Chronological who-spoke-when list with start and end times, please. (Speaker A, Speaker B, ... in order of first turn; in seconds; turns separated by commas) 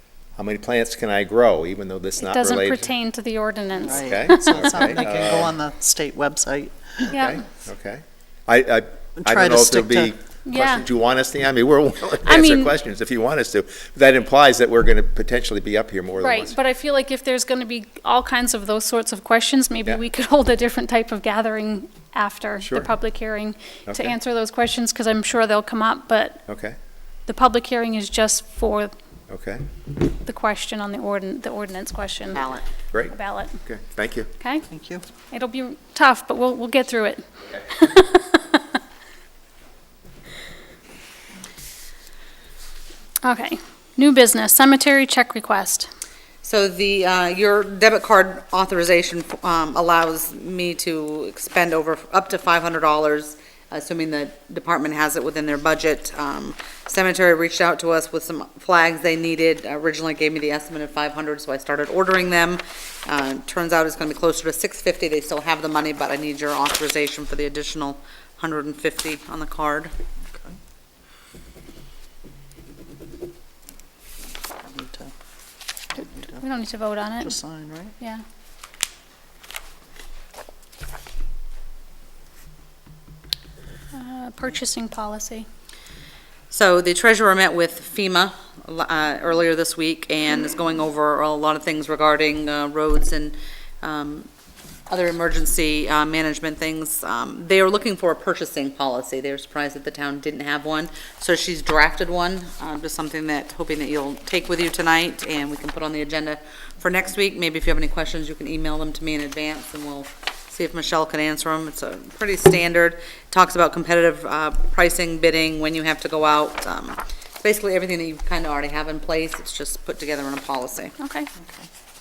Speaker A: 0.4-2.9, Speaker B: 2.2-5.1, Speaker A: 3.9-5.6, Speaker C: 3.9-7.1, Speaker A: 7.1-16.6, Speaker B: 7.1-7.4, Speaker C: 9.2-10.1, Speaker B: 10.4-10.9, Speaker B: 12.2-12.8, Speaker B: 16.2-26.4, Speaker A: 22.6-22.9, Speaker A: 23.9-24.1, Speaker A: 26.5-26.8, Speaker B: 27.3-28.9, Speaker A: 29.3-29.6, Speaker B: 30.2-32.5, Speaker D: 32.4-32.6, Speaker A: 32.9-34.3, Speaker B: 33.1-33.6, Speaker B: 34.4-34.7, Speaker C: 34.7-35.0, Speaker B: 35.3-38.6, Speaker B: 43.2-45.9, Speaker D: 46.4-69.9, Speaker C: 74.7-75.1, Speaker C: 75.9-76.4, Speaker B: 76.3-77.4, Speaker C: 77.2-77.9, Speaker B: 83.9-85.5, Speaker D: 86.5-94.3, Speaker D: 94.9-121.0, Speaker B: 121.0-121.3